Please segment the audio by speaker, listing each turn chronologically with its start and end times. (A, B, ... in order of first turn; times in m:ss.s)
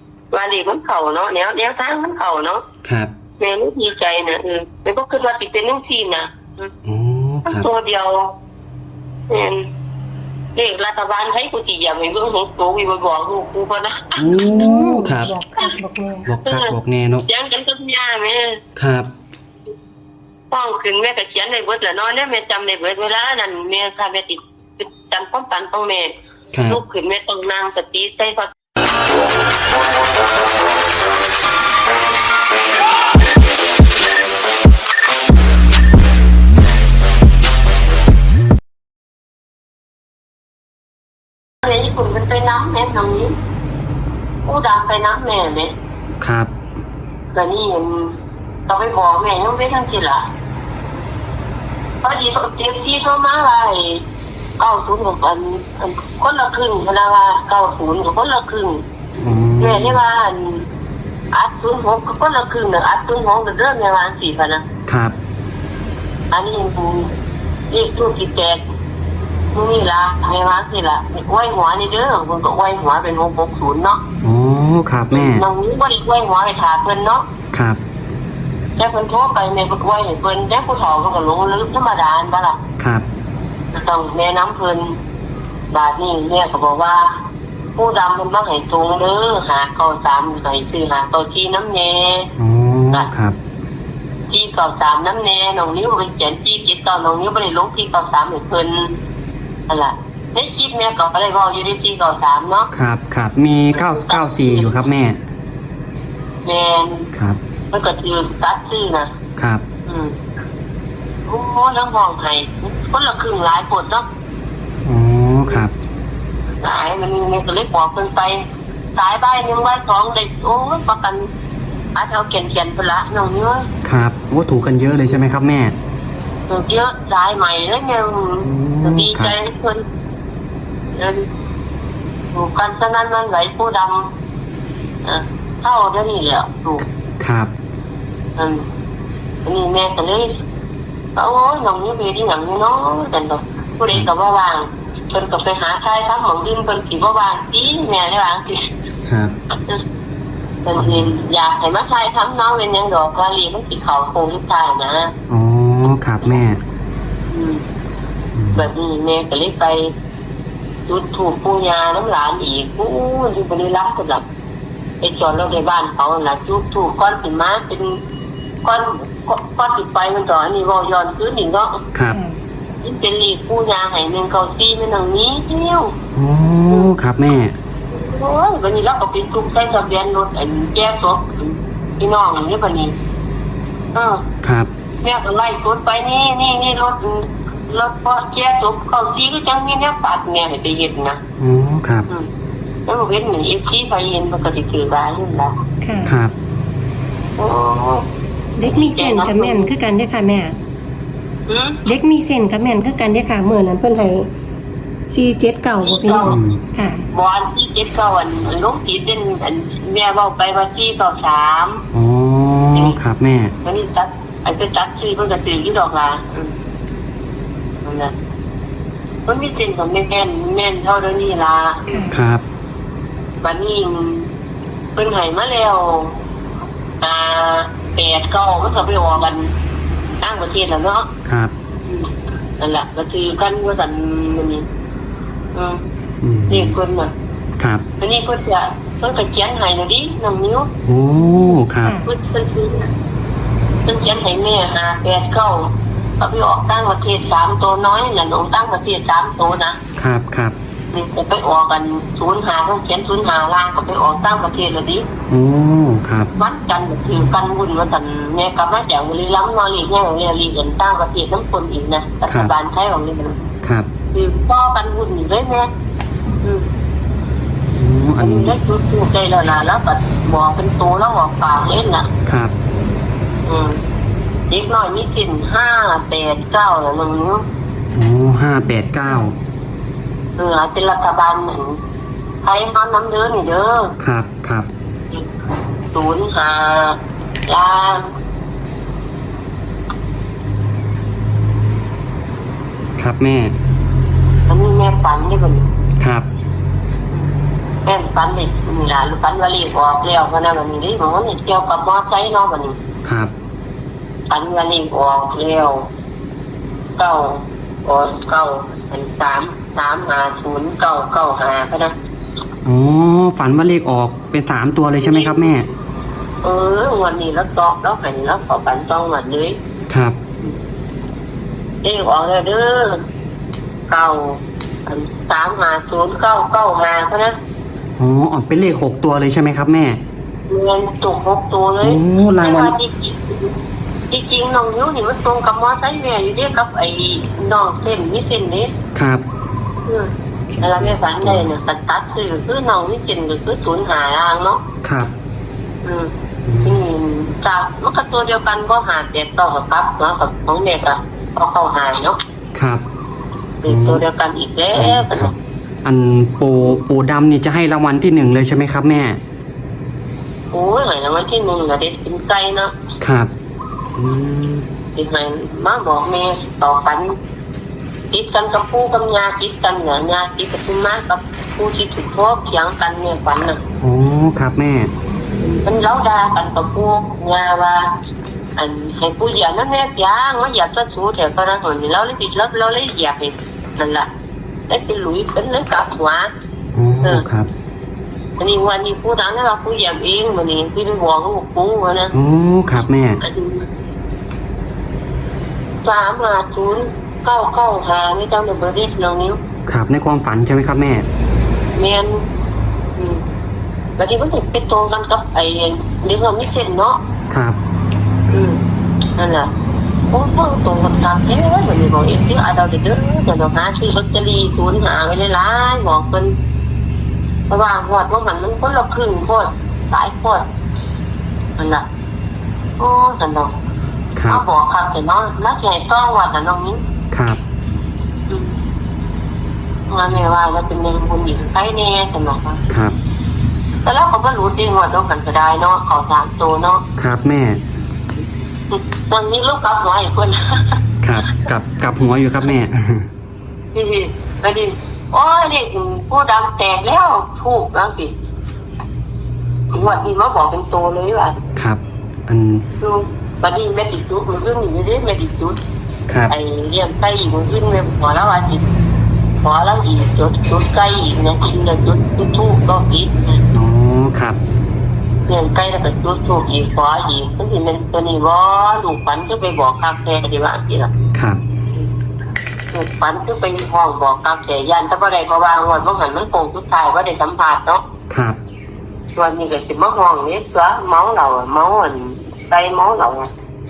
0:00.3-0:02.6 A
0:02.8-0:03.1 B
0:03.4-0:06.7 A
0:06.8-0:07.7 B
0:07.5-0:08.3 A
0:09.3-0:09.7 A
0:10.6-0:14.6 A
0:14.2-0:15.4 B
0:14.2-0:16.3 C
0:16.3-0:17.3 B
0:16.4-0:16.7 A
0:17.3-0:18.6 A
0:18.8-0:19.1 B
0:20.5-0:26.1 A
0:26.5-0:26.8 B
0:26.7-0:28.5 A
0:41.6-0:43.4 A
0:44.5-0:45.7 A
0:46.2-0:46.5 B
0:47.3-0:48.2 A
0:48.7-0:50.3 A
0:52.0-0:54.0 A
0:54.6-0:58.8 A
0:59.2-1:00.0 B
0:59.6-1:00.7 A
1:01.3-1:04.6 A
1:04.9-1:05.2 B
1:06.3-1:07.1 A
1:07.7-1:08.6 A
1:09.5-1:14.0 A
1:14.2-1:15.5 B
1:15.1-1:17.2 A
1:17.5-1:17.8 B
1:18.8-1:22.6 A
1:22.8-1:23.1 B
1:23.7-1:25.0 A
1:25.7-1:27.1 A
1:27.8-1:32.3 A
1:32.4-1:33.4 B
1:34.3-1:39.0 A
1:39.7-1:42.7 A
1:42.7-1:45.2 B
1:43.7-1:44.8 A
1:46.4-1:47.1 A
1:47.1-1:47.4 B
1:47.7-1:49.1 A
1:49.4-1:49.6 B
1:49.9-1:50.2 A
1:51.3-1:54.1 A
1:54.8-1:55.7 B
1:56.6-2:01.3 A
2:02.0-2:03.7 A
2:03.8-2:05.7 B
2:06.5-2:09.8 A
2:08.4-2:09.4 B
2:11.0-2:11.3 A
2:12.3-2:14.1 A
2:15.0-2:16.8 A
2:17.2-2:17.5 B
2:18.4-2:18.7 A
2:19.4-2:20.3 A
2:21.2-2:28.7 A
2:29.1-2:29.3 B
2:30.6-2:35.1 A
2:35.3-2:36.6 B
2:37.3-2:37.6 A
2:38.4-2:38.6 B
2:38.5-2:39.9 A
2:40.9-2:44.2 A
2:45.0-2:48.0 A
2:48.6-2:51.8 A
2:52.1-2:52.4 C
2:52.8-2:55.9 A
2:56.2-2:57.6 B
2:57.9-3:02.9 A
3:04.0-3:04.2 A
3:04.4-3:04.7 B
3:05.0-3:11.2 A
3:11.4-3:12.1 B
3:12.9-3:15.6 A
3:15.8-3:16.2 C
3:16.0-3:16.3 B
3:17.4-3:18.1 A
3:18.6-3:20.6 C
3:18.6-3:19.7 A
3:21.5-3:21.8 A
3:21.9-3:24.3 C
3:25.1-3:27.0 C
3:25.8-3:26.4 A
3:26.2-3:26.6 B
3:27.1-3:31.9 A
3:31.9-3:33.5 B
3:33.6-3:36.5 A
3:37.8-3:38.1 A
3:39.3-3:42.0 A
3:41.9-3:42.2 C
3:42.1-3:42.4 B
3:43.4-3:44.3 A
3:45.0-3:46.2 A
3:47.0-3:49.5 A
3:50.2-3:51.1 A
3:51.2-3:51.5 B
3:51.9-3:54.7 A
3:55.5-3:55.8 A
3:56.2-3:56.8 B
3:56.5-3:57.1 A
3:57.6-3:57.8 B
3:58.0-4:00.7 A
4:00.8-4:02.0 B
4:01.8-4:02.1 C
4:02.0-4:02.9 A
4:03.9-4:09.8 A
4:10.0-4:10.6 B
4:10.9-4:15.1 A
4:15.3-4:16.3 B
4:16.4-4:23.4 A
4:22.3-4:22.5 B
4:23.6-4:23.9 B
4:24.1-4:25.7 A
4:26.4-4:26.7 A
4:27.7-4:28.6 B
4:28.2-4:32.1 A
4:32.3-4:32.5 B
4:33.5-4:33.8 A
4:34.5-4:37.4 A
4:37.9-4:39.4 B
4:40.4-4:41.8 A
4:42.4-4:43.9 A
4:44.0-4:44.7 B
4:45.9-4:48.1 A
4:53.0-4:53.5 B
4:54.5-4:55.7 A
4:56.0-4:56.3 B
4:57.9-5:02.8 A
5:03.0-5:03.3 B
5:04.3-5:05.9 A
5:07.0-5:12.0 A
5:12.6-5:15.7 B
5:15.0-5:15.6 A
5:16.4-5:19.6 A
5:19.9-5:20.2 B
5:21.8-5:23.0 A
5:23.9-5:27.4 A
5:28.0-5:30.0 B
5:30.5-5:33.6 A
5:31.8-5:32.8 B
5:34.1-5:38.7 A
5:39.0-5:39.2 B
5:39.9-5:44.6 A
5:40.5-5:41.4 B
5:44.8-5:45.1 B
5:45.8-5:46.1 A
5:46.5-5:46.8 B
5:46.6-5:52.2 A
5:52.6-5:52.8 B
5:53.6-5:55.4 A
5:53.7-5:54.0 B
5:54.8-5:55.3 B
5:55.8-5:59.2 B
6:00.5-6:02.7 A
6:03.0-6:03.3 B
6:04.0-6:04.7 B
6:05.0-6:07.2 A
6:08.1-6:13.6 A
6:13.8-6:14.9 B
6:15.4-6:17.9 A
6:18.6-6:24.1 A
6:24.7-6:26.3 A
6:26.7-6:27.5 B
6:28.4-6:32.1 A
6:32.1-6:33.2 B
6:33.2-6:33.7 A
6:35.8-6:39.4 A
6:39.7-6:41.1 B
6:41.8-6:42.3 A
6:43.0-6:43.2 A
6:44.0-6:47.0 A
6:47.3-6:47.6 B
6:48.3-6:48.6 A
6:49.2-6:49.5 A
6:50.1-6:56.4 A
6:57.5-7:00.4 A
7:01.6-7:01.8 A
7:02.8-7:03.6 A
7:04.2-7:04.4 B
7:04.3-7:06.8 A
7:07.1-7:07.4 B
7:08.3-7:08.5 A
7:09.9-7:12.6 A
7:12.7-7:13.0 B
7:13.8-7:16.8 A
7:17.0-7:17.6 B
7:18.7-7:20.8 A
7:21.0-7:23.1 B
7:23.7-7:28.1 A
7:29.7-7:31.4 A
7:31.6-7:32.6 B
7:32.8-7:35.6 A
7:36.3-7:38.7 A
7:39.4-7:43.4 A
7:43.5-7:44.4 B
7:45.3-7:50.9 A
7:51.1-7:51.4 B
7:52.7-7:57.8 A
7:58.1-7:58.4 B
7:59.2-8:03.3 A